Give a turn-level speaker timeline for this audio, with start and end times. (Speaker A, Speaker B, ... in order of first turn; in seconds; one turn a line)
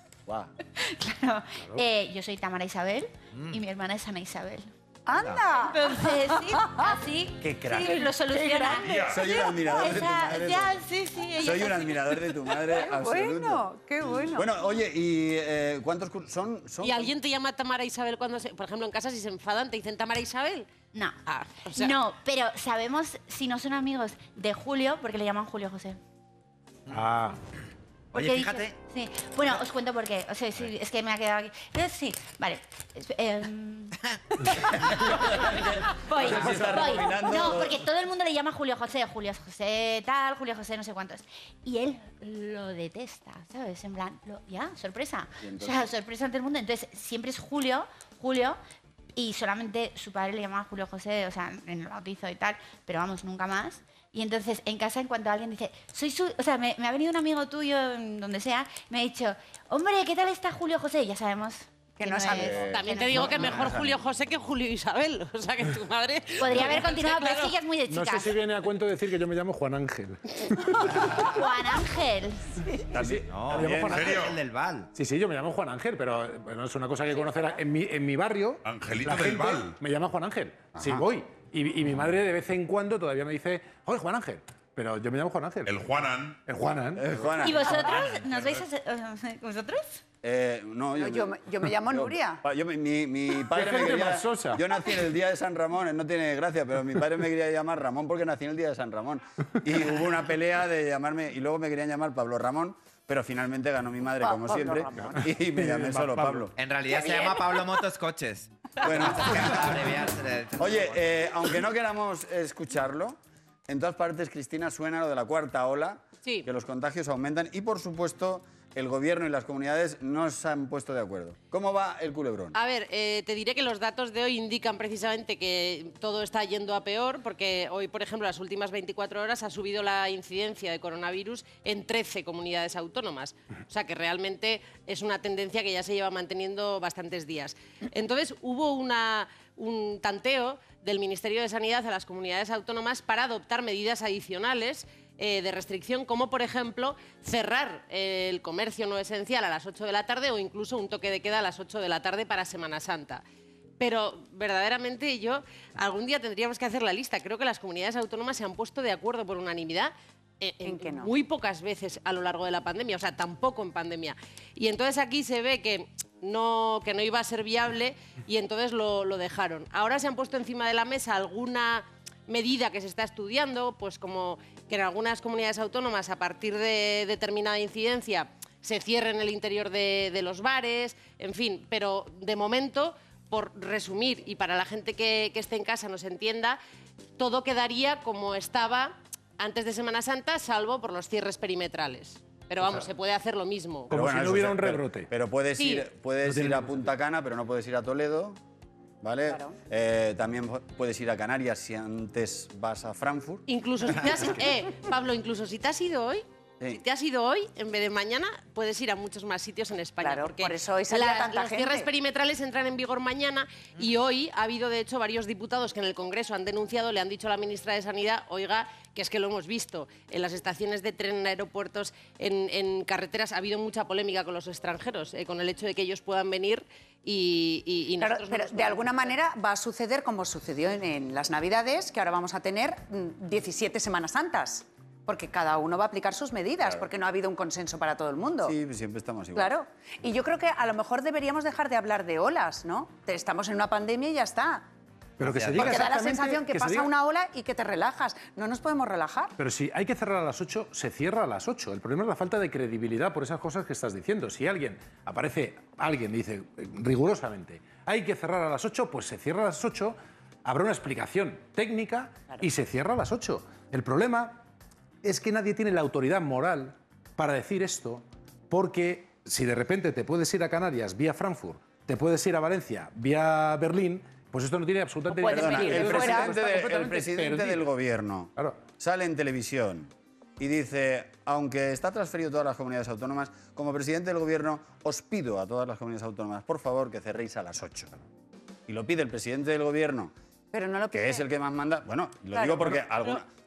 Speaker A: 0.8-4.7
Speaker B: 3.3-3.6
Speaker C: 5.1-7.0
Speaker A: 5.6-12.3
Speaker D: 7.4-8.0
Speaker C: 7.8-9.1
Speaker E: 8.8-9.3
Speaker D: 9.1-10.8
Speaker D: 11.4-13.7
Speaker C: 12.7-14.5
Speaker D: 14.2-17.1
Speaker F: 16.8-20.7
Speaker A: 20.9-26.0
Speaker F: 21.3-21.9
Speaker G: 26.9-27.4
Speaker B: 28.1-28.7
Speaker A: 28.1-48.6
Speaker D: 35.1-37.8
Speaker D: 45.4-45.9
Speaker A: 49.2-63.8
Speaker C: 62.0-62.7
Speaker D: 62.3-64.0
Speaker F: 62.7-67.6
Speaker A: 66.4-68.4
Speaker G: 67.9-71.1
Speaker A: 71.1-72.7
Speaker D: 72.9-74.2
Speaker G: 73.0-74.1
Speaker B: 73.3-74.9
Speaker E: 73.9-74.4
Speaker G: 75.0-85.8
Speaker E: 78.6-79.8
Speaker D: 80.8-81.0
Speaker E: 85.7-86.4
Speaker G: 86.5-87.2
Speaker D: 87.0-87.8
Speaker A: 87.4-90.0
Speaker D: 90.2-106.5
Speaker C: 91.0-92.4
Speaker G: 93.5-94.6
Speaker C: 104.2-105.2
Speaker G: 105.0-106.5
Speaker B: 106.6-111.3
Speaker C: 106.9-107.6
Speaker D: 108.8-109.7
Speaker D: 110.6-122.6
Speaker F: 122.5-153.2
Speaker F: 153.8-186.6
Speaker C: 160.6-161.1
Speaker F: 187.2-193.9
Speaker G: 192.6-192.9
Speaker G: 193.9-195.1
Speaker D: 193.9-198.4
Speaker F: 195.6-195.9
Speaker G: 196.2-196.8
Speaker D: 199.0-204.4
Speaker C: 199.3-199.6
Speaker F: 203.5-229.1
Speaker C: 210.0-211.9
Speaker C: 228.0-238.6
Speaker D: 236.6-236.9
Speaker D: 238.4-239.5
Speaker C: 239.3-244.7
Speaker G: 245.2-246.9
Speaker B: 245.2-245.8
Speaker C: 245.6-249.4
Speaker G: 249.4-264.4
Speaker G: 265.0-277.7
Speaker C: 275.1-276.4
Speaker D: 275.3-288.0
Speaker G: 278.4-278.6
Speaker D: 288.7-290.1
Speaker C: 290.5-291.2
Speaker D: 290.9-293.3
Speaker C: 292.3-292.8